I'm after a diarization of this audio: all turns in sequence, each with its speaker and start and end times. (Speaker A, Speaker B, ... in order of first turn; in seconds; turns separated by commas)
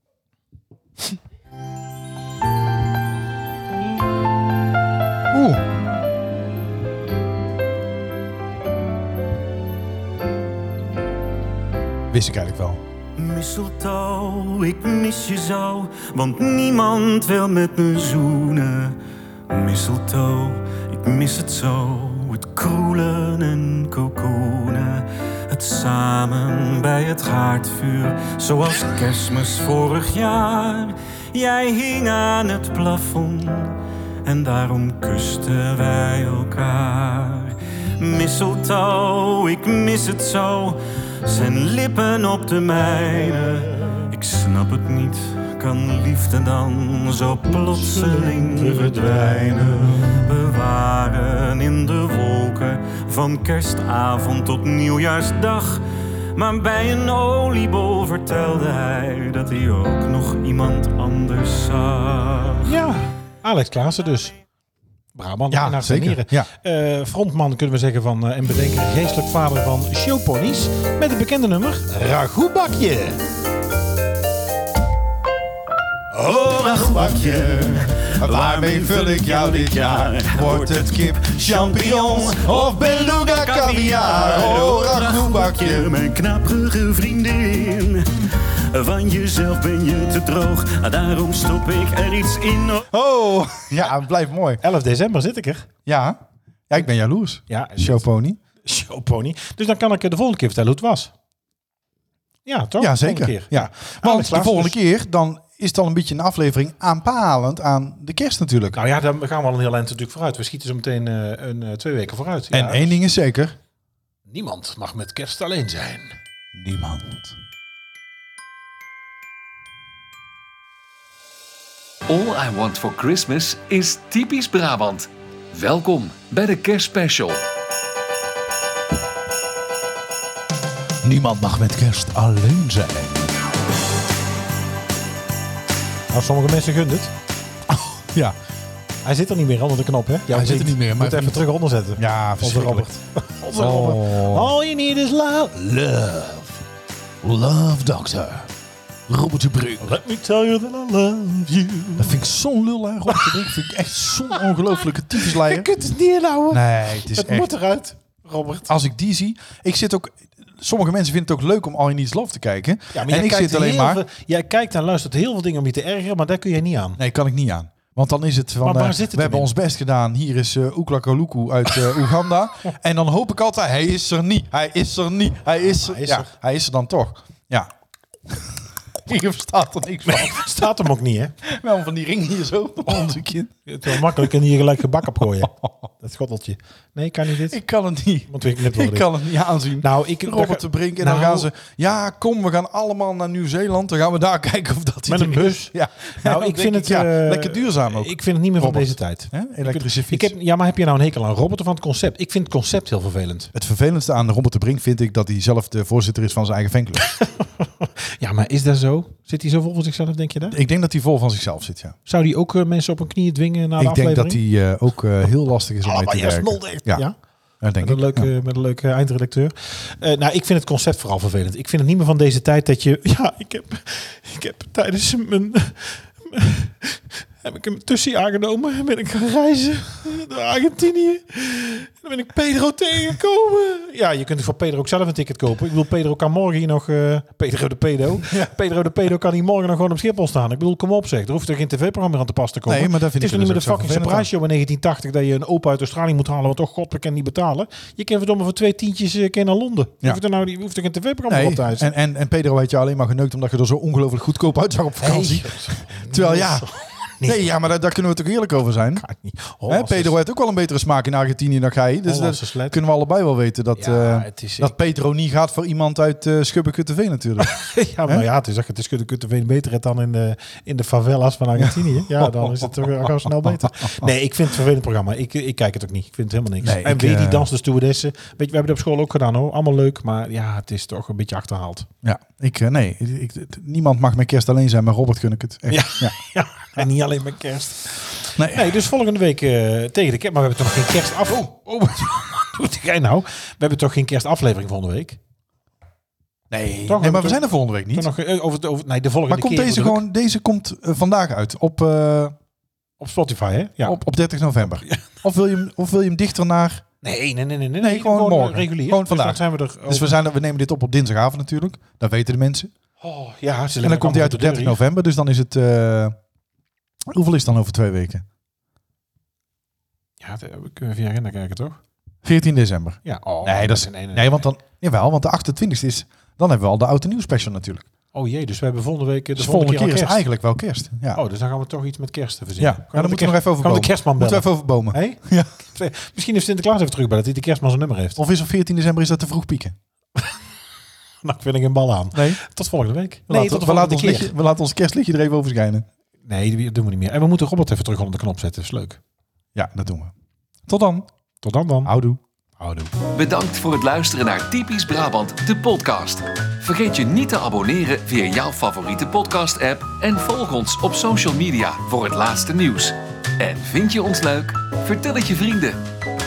Speaker A: 5.3-5.6, Speaker A: 12.1-12.8, Speaker B: 13.2-19.0, Speaker B: 19.5-55.8, Speaker C: 47.5-49.8, Speaker B: 56.3-62.7, Speaker C: 62.6-64.3, Speaker C: 65.1-73.2, Speaker A: 65.5-66.5, Speaker B: 76.1-92.9, Speaker A: 76.6-85.9, Speaker A: 92.9-94.6, Speaker C: 94.6-95.7, Speaker A: 95.8-98.4, Speaker C: 97.5-98.1, Speaker C: 98.6-101.1, Speaker C: 102.5-104.8, Speaker A: 102.8-108.8, Speaker C: 108.7-113.0, Speaker A: 112.5-113.5, Speaker C: 114.3-116.2, Speaker A: 116.5-117.3, Speaker D: 122.1-127.4, Speaker A: 131.0-133.4, Speaker C: 136.1-137.1, Speaker A: 137.7-138.3, Speaker C: 139.0-146.6, Speaker A: 140.3-142.9, Speaker A: 143.6-144.5, Speaker A: 147.2-148.5, Speaker A: 149.1-149.9, Speaker C: 149.8-152.2, Speaker A: 152.0-155.7, Speaker C: 153.1-153.4, Speaker C: 155.1-158.7, Speaker A: 156.5-157.5, Speaker A: 158.7-164.0, Speaker C: 162.9-167.0, Speaker A: 167.0-177.7, Speaker C: 168.6-169.5, Speaker C: 175.6-176.3, Speaker A: 178.3-180.7, Speaker C: 180.1-181.3, Speaker A: 181.4-184.3, Speaker C: 182.8-187.6, Speaker A: 185.4-185.9, Speaker A: 187.4-200.3, Speaker C: 188.3-189.1, Speaker C: 189.8-191.5, Speaker C: 195.1-203.5, Speaker A: 203.5-207.1, Speaker C: 207.2-210.6, Speaker A: 210.5-212.0, Speaker C: 212.1-214.4, Speaker A: 213.8-217.1, Speaker C: 215.8-217.2, Speaker A: 217.6-218.3, Speaker C: 217.8-251.9, Speaker A: 238.2-238.5, Speaker A: 242.7-244.3, Speaker A: 251.3-256.7, Speaker C: 255.0-257.4, Speaker A: 257.2-259.0, Speaker C: 259.0-260.2, Speaker A: 259.7-268.2, Speaker C: 262.0-262.8, Speaker C: 263.8-264.7, Speaker C: 267.4-281.9, Speaker A: 271.6-274.1, Speaker A: 276.6-277.5, Speaker A: 282.0-286.1, Speaker C: 285.7-295.2, Speaker A: 288.4-288.7, Speaker A: 296.5-298.1, Speaker C: 296.9-300.1, Speaker A: 299.3-302.4, Speaker C: 303.0-304.0, Speaker A: 303.8-306.8, Speaker C: 304.7-305.0, Speaker C: 307.0-310.1, Speaker A: 307.8-312.7, Speaker C: 313.0-314.8, Speaker A: 313.8-316.1, Speaker A: 317.1-318.2, Speaker C: 320.2-321.8, Speaker A: 322.2-327.9, Speaker C: 323.0-324.5, Speaker C: 328.1-330.2, Speaker A: 329.4-331.2, Speaker C: 331.1-338.2, Speaker A: 332.6-335.5, Speaker A: 338.2-339.7, Speaker C: 341.2-344.3, Speaker A: 342.1-342.4, Speaker A: 343.3-345.9, Speaker C: 346.2-349.0, Speaker A: 349.5-350.1, Speaker A: 350.7-351.1, Speaker C: 351.4-351.9, Speaker A: 351.8-352.2, Speaker C: 352.6-352.9, Speaker D: 353.1-365.8